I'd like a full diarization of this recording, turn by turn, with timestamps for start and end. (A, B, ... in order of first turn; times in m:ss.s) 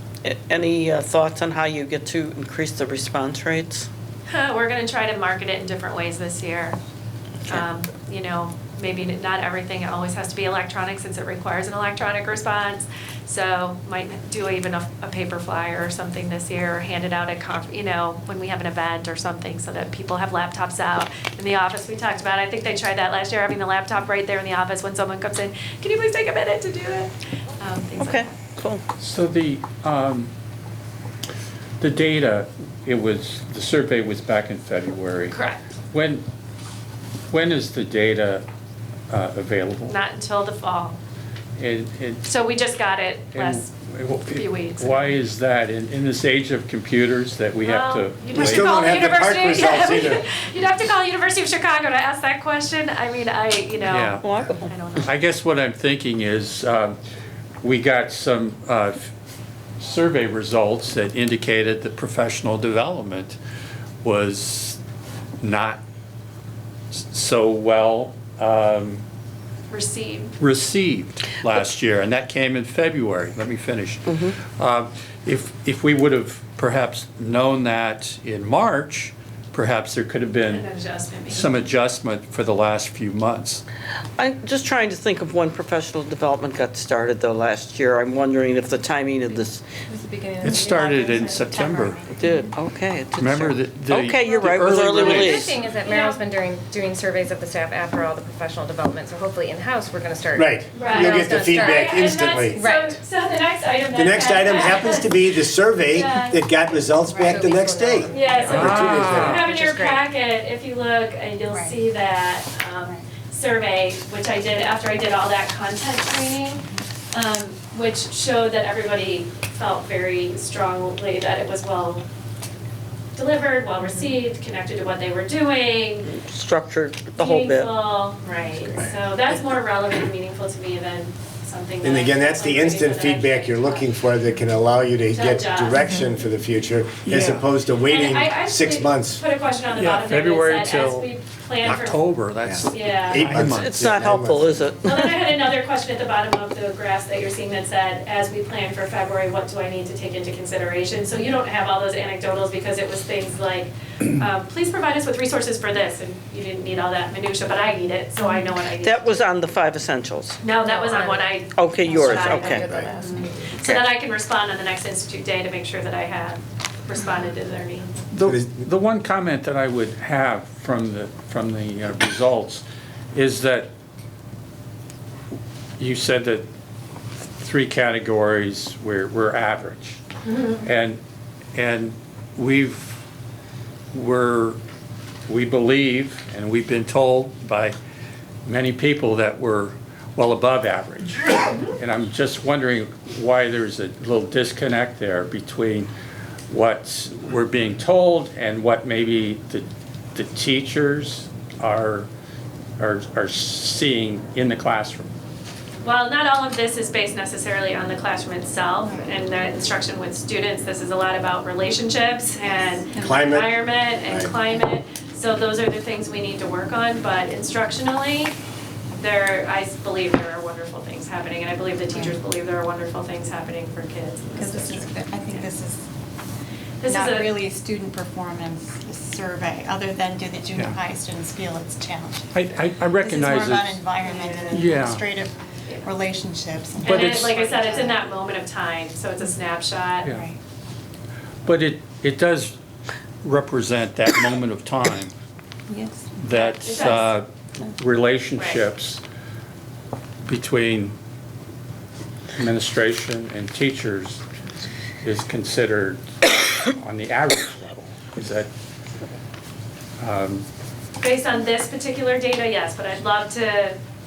0:00.2-0:03.9 A
0:04.3-0:06.8 B
0:07.5-0:28.3 B
0:28.0-0:28.8 A
0:29.0-0:30.3 C
0:31.8-0:35.4 C
0:35.3-0:35.6 B
0:35.9-0:36.2 C
0:37.3-0:38.5 C
0:39.1-0:40.0 C
0:39.9-0:41.0 B
0:41.6-0:42.3 C
0:42.2-0:43.7 B
0:43.3-0:48.8 C
0:44.3-0:45.2 B
0:47.6-0:55.1 B
0:48.3-0:50.2 D
0:53.9-0:54.2 C
0:54.2-0:54.7 A
0:55.0-0:57.0 C
0:57.6-0:59.1 C
0:59.8-1:03.4 C
1:04.0-1:04.8 C
1:05.4-1:05.8 C
1:06.9-1:09.0 C
1:09.7-1:10.4 B
1:10.4-1:20.6 C
1:14.1-1:14.4 A
1:20.5-1:21.5 B
1:21.3-1:23.6 C
1:24.2-1:29.6 A
1:29.9-1:32.5 E
1:30.4-1:32.0 C
1:32.1-1:35.6 A
1:33.2-1:35.5 C
1:35.1-1:42.0 E
1:35.8-1:36.2 B
1:40.4-1:42.7 D
1:40.8-1:46.9 B
1:42.5-1:43.0 E
1:43.9-1:49.4 D
1:47.0-1:47.5 F
1:47.2-1:50.1 E
1:48.1-2:02.1 B
1:48.5-1:49.5 C
1:51.5-1:51.8 F
2:03.2-2:06.1 B
2:03.8-2:04.2 E
2:06.1-2:07.7 A
2:07.2-2:13.9 B
2:08.3-2:08.7 E
2:11.8-2:19.2 D
2:15.1-2:15.9 B
2:17.0-2:17.4 C
2:17.8-2:22.1 B
2:19.7-2:21.1 C
2:21.6-2:23.9 C
2:22.5-2:24.7 D
2:22.6-2:23.3 B
2:23.5-2:25.1 A
2:24.8-2:39.2 B
2:38.8-2:40.4 A
2:40.4-2:47.9 B
2:40.5-2:43.5 E
2:41.6-2:42.7 A
2:48.1-2:52.6 C
2:48.3-2:48.6 D
2:53.1-2:53.7 C
2:55.8-2:56.4 C
2:57.4-3:00.0 C
3:00.3-3:00.6 B
3:00.6-3:01.0 C
3:01.6-3:03.0 C
3:03.9-3:04.6 C
3:05.3-3:07.8 C
3:08.4-3:15.9 C
3:16.5-3:22.1 C
3:22.8-3:25.1 C
3:25.8-3:38.4 B
3:32.6-3:33.2 F
3:33.0-3:34.3 D
3:39.0-3:45.5 B
3:41.9-3:42.2 F
3:44.4-3:45.9 F
3:46.8-3:47.3 B
3:46.8-3:58.0 F
3:52.3-3:53.8 C
3:54.1-3:54.7 B
3:54.5-3:55.1 C
3:56.8-4:00.1 B
3:56.8-3:57.3 C
4:00.1-4:00.4 F
4:01.4-4:02.6 C
4:03.2-4:05.1 C
4:05.7-4:06.1 F
4:06.2-4:09.0 C
4:06.3-4:07.1 B
4:08.4-4:08.6 B
4:10.3-4:11.0 C
4:12.4-4:14.2 C
4:15.0-4:18.5 C
4:20.0-4:20.5 C
4:21.0-4:23.8 B